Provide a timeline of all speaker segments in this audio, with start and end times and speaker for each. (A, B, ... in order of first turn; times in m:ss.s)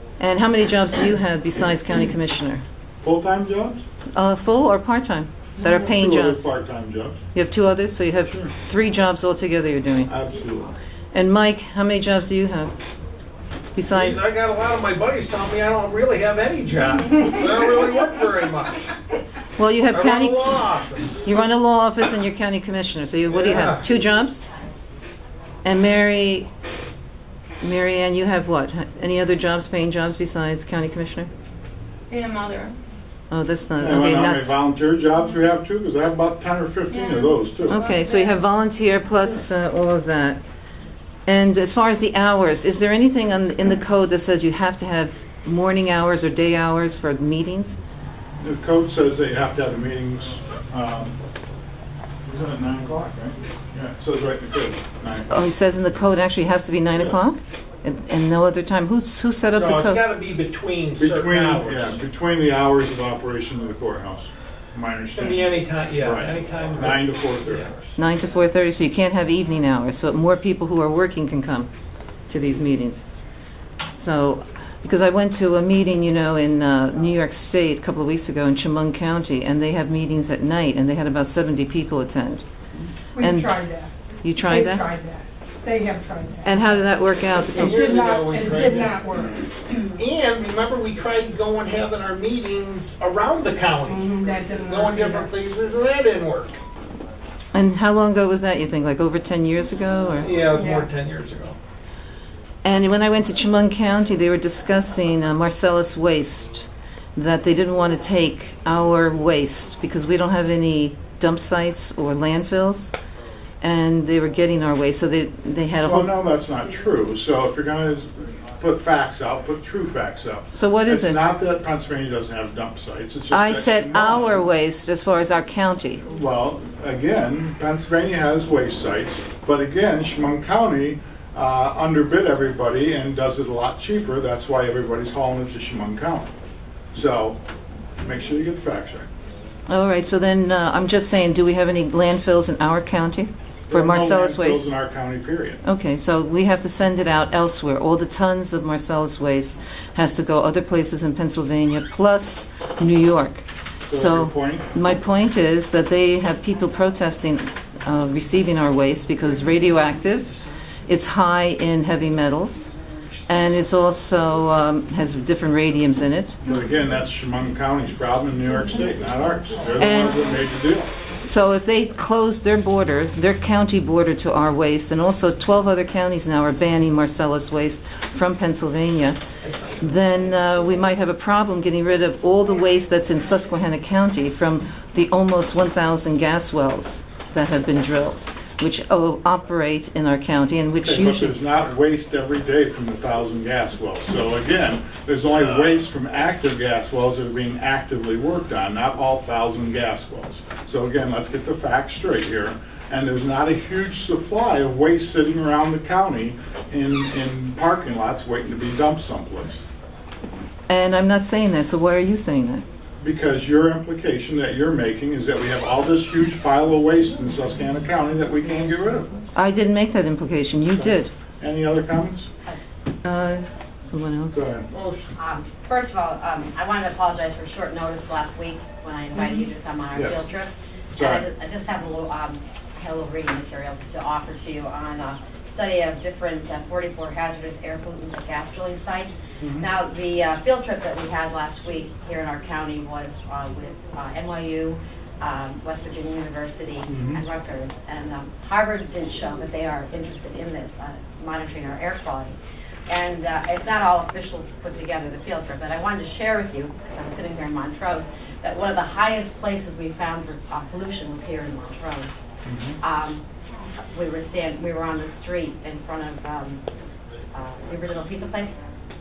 0:00.2-0:02.6 A
0:03.0-0:03.8 B
0:04.1-0:06.4 A
0:05.6-0:07.2 B
0:07.3-0:10.1 A
0:10.1-0:10.7 B
0:11.1-0:12.7 A
0:13.8-0:14.3 A
0:13.9-0:19.0 C
0:19.6-0:20.6 A
0:19.9-0:21.2 C
0:21.2-0:24.4 A
0:23.3-0:23.8 C
0:25.6-0:26.5 A
0:27.6-0:31.3 A
0:32.1-0:32.8 D
0:33.3-0:34.6 A
0:33.8-0:37.9 B
0:36.9-0:38.4 D
0:37.7-0:40.4 A
0:41.3-0:47.8 A
0:48.4-0:51.2 B
0:52.3-0:55.5 B
0:55.1-1:00.0 A
0:59.5-1:02.0 C
1:01.0-1:07.7 B
1:05.2-1:07.9 C
1:08.0-1:11.7 A
1:12.3-1:13.0 A
1:13.9-1:22.4 A
1:23.2-1:27.0 E
1:23.2-1:23.5 A
1:24.2-1:24.9 A
1:26.4-1:27.9 A
1:27.3-1:36.6 C
1:27.6-1:29.5 E
1:33.9-1:35.3 E
1:37.5-1:40.4 A
1:40.2-1:41.6 C
1:40.5-1:40.9 E
1:42.6-1:52.9 A
1:53.6-1:56.1 A
1:55.8-2:04.4 B
2:00.5-2:01.2 A
2:03.3-2:06.0 A
2:06.1-2:16.3 B
2:16.9-2:17.4 B
2:18.0-2:19.1 B
2:19.7-2:24.6 A
2:23.7-2:25.6 B
2:25.6-2:42.7 A
2:33.9-2:34.7 B
2:43.3-2:46.4 A
2:46.4-2:50.9 B
2:49.8-2:50.2 A
2:51.2-2:59.2 A
2:59.4-3:00.2 C
2:59.8-3:11.5 A
3:10.8-3:29.6 B
3:30.7-3:32.6 A
3:33.0-3:39.1 B
3:39.4-3:41.1 A
3:40.8-3:42.3 B
3:43.0-3:44.4 A
3:44.3-3:44.7 B
3:44.7-3:45.1 C
3:45.2-4:12.4 F
3:50.0-3:50.3 B
3:51.0-3:51.3 B
3:59.4-3:59.7 B
4:06.9-4:07.2 B
4:12.9-4:22.2 F
4:22.5-4:22.8 B
4:22.8-4:23.2 F
4:23.9-4:26.6 F
4:27.3-4:28.6 F